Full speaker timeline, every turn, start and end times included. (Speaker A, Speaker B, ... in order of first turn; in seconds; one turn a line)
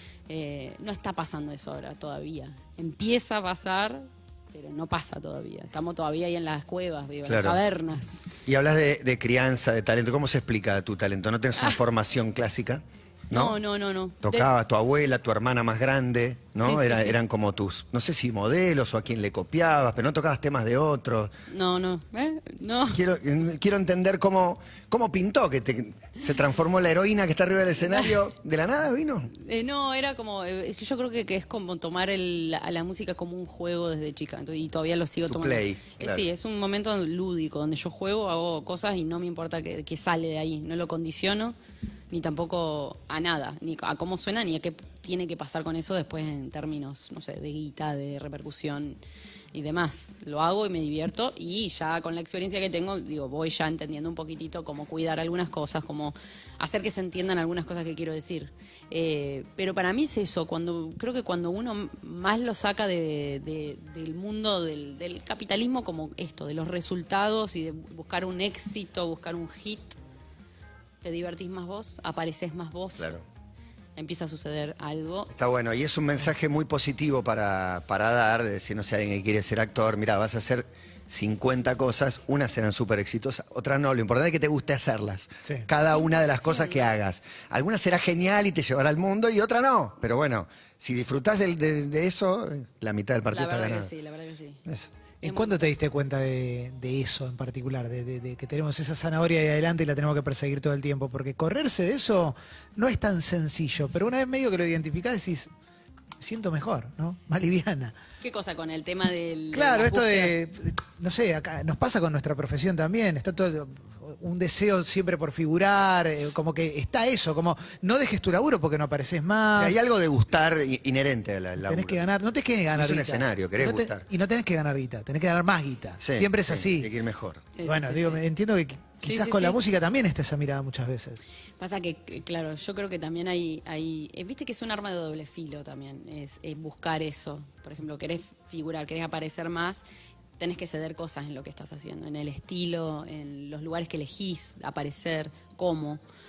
Speaker A: 0.3-8.3
Speaker B: 7.3-7.6
Speaker B: 8.5-13.6
Speaker A: 13.3-14.5
Speaker B: 14.2-21.3
Speaker A: 16.6-17.2
Speaker A: 21.5-23.0
Speaker B: 22.9-29.3
Speaker A: 29.3-41.6
Speaker B: 35.3-36.2
Speaker A: 42.1-49.0
Speaker A: 49.5-70.0
Speaker A: 71.0-73.1
Speaker B: 73.0-73.2
Speaker A: 74.0-75.3
Speaker B: 75.3-93.9
Speaker A: 85.9-86.8
Speaker A: 93.3-94.6
Speaker A: 95.2-95.7
Speaker C: 95.2-105.5
Speaker C: 106.2-108.0
Speaker A: 108.2-110.4
Speaker C: 109.5-119.8
Speaker B: 119.6-122.0
Speaker C: 121.6-126.9
Speaker B: 122.7-124.0
Speaker B: 126.0-127.4
Speaker A: 127.5-128.2
Speaker C: 127.6-131.2
Speaker A: 129.0-129.6
Speaker A: 131.6-139.9
Speaker A: 140.4-146.0